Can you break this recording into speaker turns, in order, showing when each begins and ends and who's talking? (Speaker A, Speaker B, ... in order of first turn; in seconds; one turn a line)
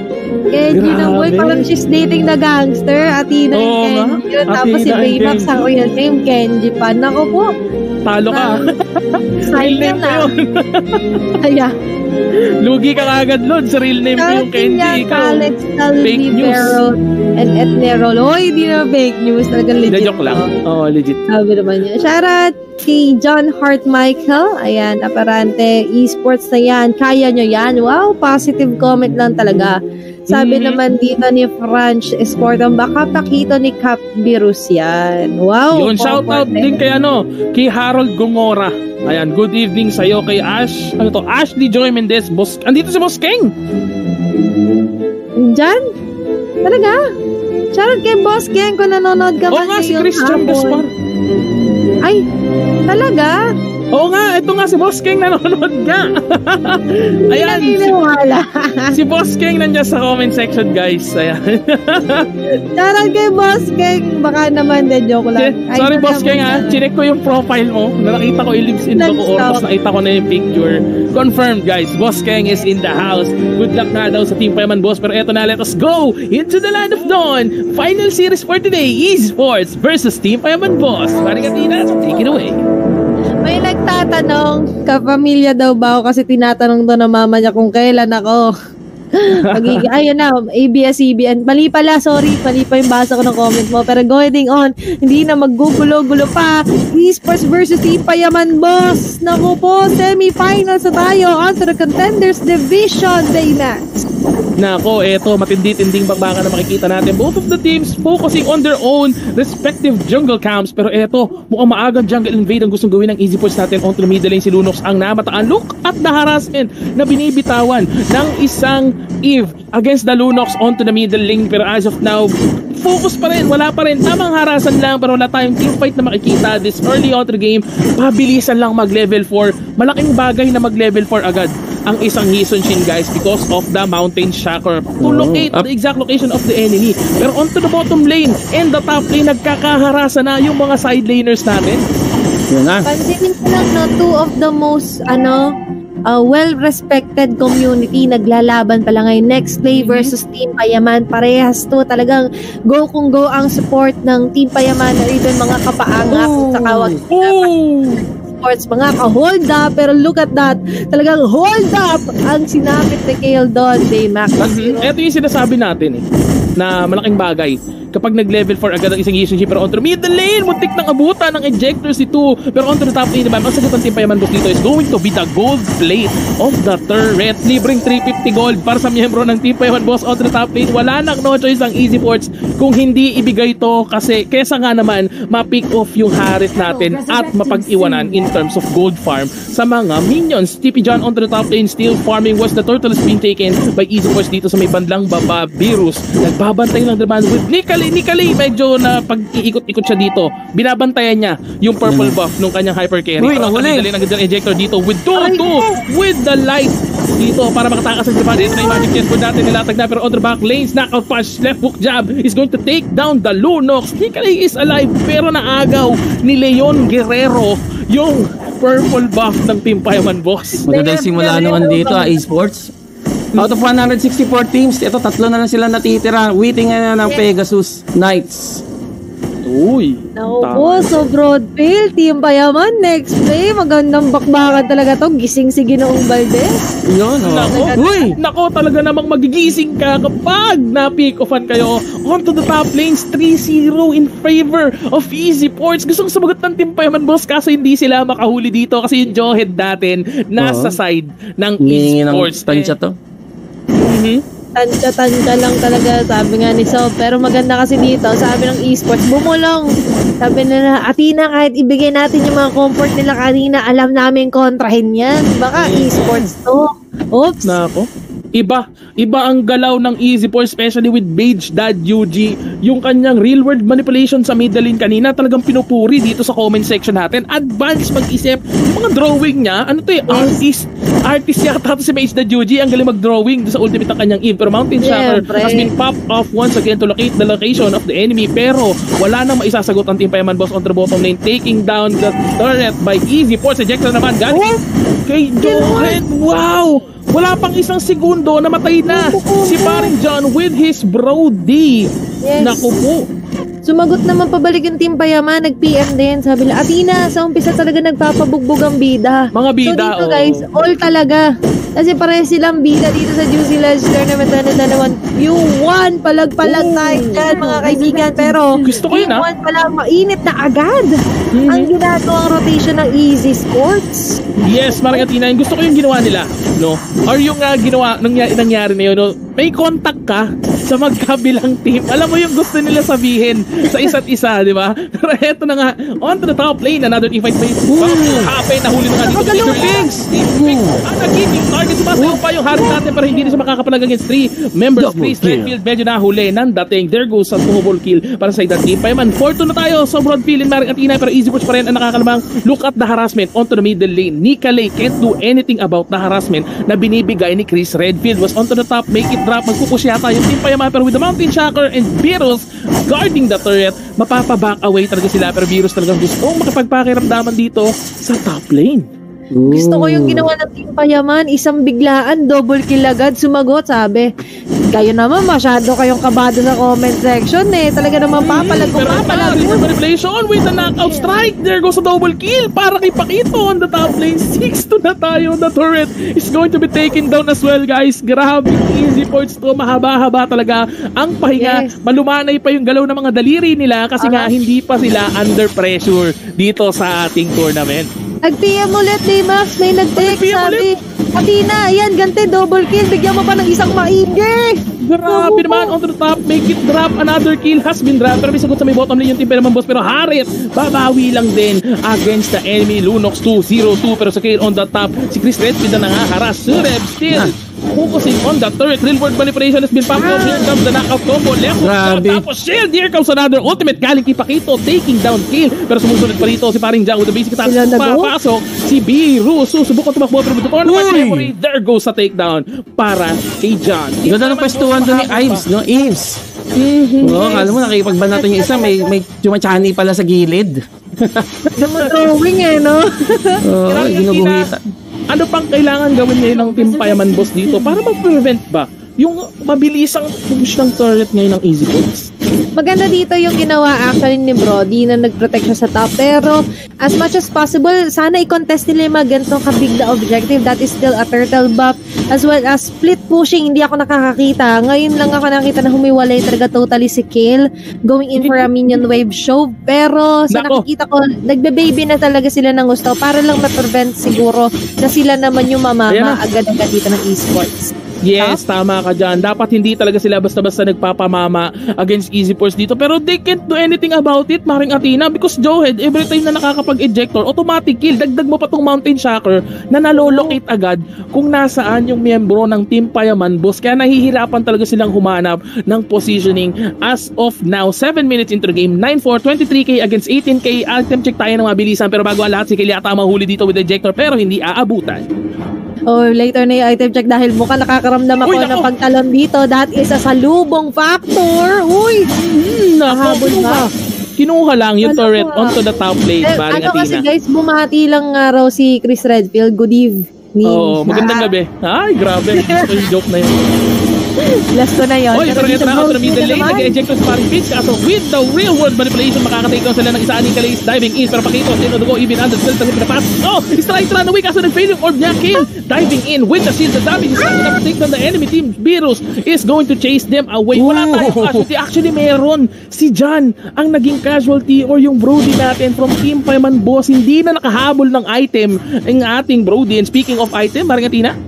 Speaker A: 0.5-7.5
Speaker B: 0.7-1.6
Speaker B: 3.5-5.7
Speaker B: 8.1-8.6
Speaker A: 8.3-8.7
Speaker B: 9.1-11.0
Speaker A: 9.4-10.3
Speaker A: 11.4-11.7
Speaker B: 12.6-15.5
Speaker A: 14.2-20.5
Speaker B: 16.0-16.8
Speaker B: 19.9-21.2
Speaker A: 21.3-29.8
Speaker A: 30.3-36.8
Speaker B: 30.3-30.8
Speaker B: 35.7-43.5
Speaker A: 45.5-45.8
Speaker A: 46.6-47.0
Speaker A: 47.7-50.8
Speaker B: 49.5-50.9
Speaker A: 52.9-53.4
Speaker B: 53.9-58.0
Speaker A: 57.3-59.0
Speaker B: 58.9-62.3
Speaker A: 62.8-66.8
Speaker B: 65.4-82.6
Speaker A: 69.0-69.6
Speaker A: 83.4-88.5
Speaker A: 89.2-104.0
Speaker B: 89.4-89.8
Speaker B: 104.6-122.3
Speaker B: 122.8-141.8
Speaker C: 135.0-135.7
Speaker C: 142.5-142.9
Speaker A: 142.9-145.4
Speaker A: 146.1-157.5
Speaker B: 149.7-150.1
Speaker C: 156.1-156.8
Speaker B: 157.1-158.0
Speaker A: 158.3-164.9
Speaker B: 164.4-166.0
Speaker B: 166.6-220.6
Speaker C: 201.8-202.2
Speaker C: 203.2-203.9
Speaker A: 205.2-205.8
Speaker A: 208.4-208.9
Speaker A: 220.7-222.2
Speaker C: 220.7-222.7
Speaker B: 221.3-222.0
Speaker C: 223.4-228.6
Speaker B: 229.4-231.1
Speaker A: 230.2-236.7
Speaker C: 236.9-238.1
Speaker B: 237.2-252.7
Speaker A: 237.5-238.1
Speaker C: 250.4-250.8
Speaker C: 251.6-252.9
Speaker B: 253.8-254.2
Speaker A: 254.6-259.7
Speaker A: 260.2-267.5
Speaker B: 265.6-266.3
Speaker B: 267.4-267.9
Speaker B: 268.4-294.5
Speaker A: 280.1-280.4
Speaker A: 284.8-285.7
Speaker A: 294.3-294.6
Speaker B: 295.1-301.8
Speaker A: 295.4-296.0
Speaker A: 298.9-299.9
Speaker A: 302.2-302.8
Speaker B: 302.4-303.0
Speaker A: 303.7-311.2
Speaker B: 309.3-310.4
Speaker A: 311.8-320.9
Speaker B: 316.5-317.3
Speaker B: 318.6-319.3
Speaker B: 321.3-321.7
Speaker A: 321.5-324.2
Speaker B: 324.4-368.8
Speaker A: 324.7-325.0
Speaker C: 337.7-338.3
Speaker A: 339.1-339.9
Speaker C: 339.4-340.8
Speaker C: 344.8-345.5
Speaker C: 369.3-370.3
Speaker A: 369.5-374.1
Speaker A: 374.7-379.6
Speaker B: 378.2-397.9
Speaker A: 391.4-391.7
Speaker A: 394.0-394.3
Speaker A: 398.2-405.7
Speaker B: 400.0-400.6
Speaker B: 404.8-435.4
Speaker A: 420.0-420.5
Speaker C: 421.6-422.2
Speaker A: 427.4-428.1
Speaker C: 430.6-431.3
Speaker C: 434.1-436.2
Speaker B: 436.7-437.2
Speaker A: 437.0-438.9
Speaker C: 437.0-441.3
Speaker A: 441.6-443.4
Speaker B: 441.6-441.9
Speaker C: 443.4-444.6
Speaker B: 443.7-444.5
Speaker B: 445.1-452.1
Speaker A: 452.6-478.4
Speaker B: 468.2-468.9
Speaker B: 470.3-470.6
Speaker B: 475.9-476.2
Speaker B: 478.1-505.1
Speaker A: 489.9-490.4
Speaker A: 505.9-512.0
Speaker B: 508.2-508.7
Speaker B: 512.2-513.7
Speaker A: 512.9-513.6
Speaker B: 514.2-517.0
Speaker A: 514.8-515.6
Speaker A: 516.2-521.3
Speaker B: 520.5-523.4
Speaker A: 522.4-522.9
Speaker A: 524.5-526.7
Speaker B: 525.1-551.1
Speaker C: 540.5-541.5